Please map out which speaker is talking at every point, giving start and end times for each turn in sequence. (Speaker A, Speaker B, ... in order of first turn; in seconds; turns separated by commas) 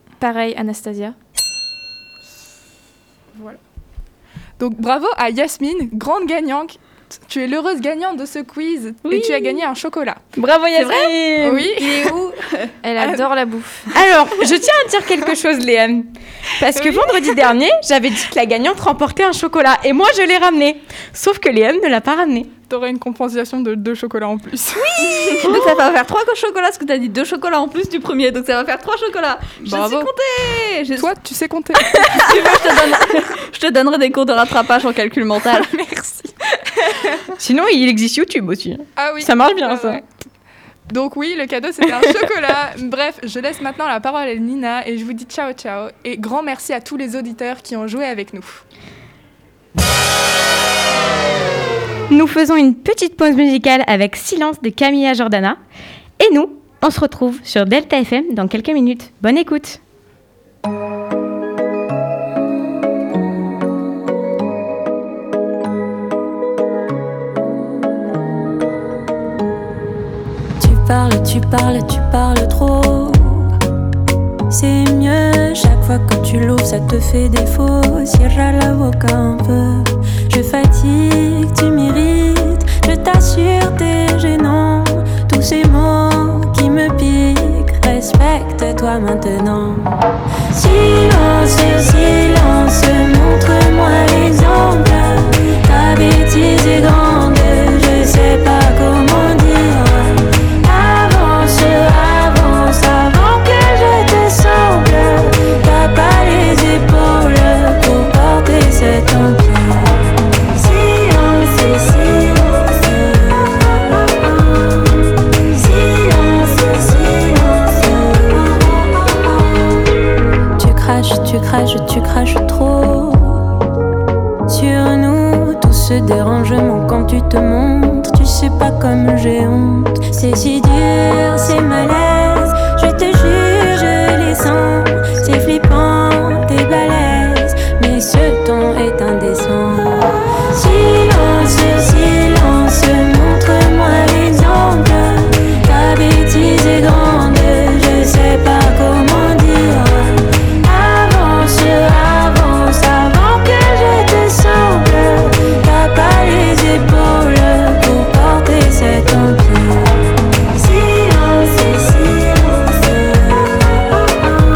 Speaker A: 0.2-1.2, Speaker B: 3.3-3.6, Speaker B: 4.6-10.2, Speaker C: 9.1-9.6, Speaker D: 10.4-11.7, Speaker C: 10.7-12.8, Speaker B: 11.5-11.7, Speaker A: 12.8-13.9, Speaker D: 13.9-22.5, Speaker B: 22.7-25.6, Speaker C: 24.8-31.1, Speaker B: 29.6-30.1, Speaker B: 31.0-32.8, Speaker C: 31.9-35.7, Speaker B: 35.5-37.0, Speaker D: 37.4-40.0, Speaker B: 39.0-40.0, Speaker B: 40.9-48.6, Speaker D: 52.1-55.6, Speaker D: 56.2-59.8, Speaker E: 70.6-73.5, Speaker E: 74.5-89.9, Speaker E: 90.5-114.2, Speaker E: 115.5-119.2, Speaker E: 120.6-123.5, Speaker E: 124.5-160.0, Speaker E: 160.5-164.2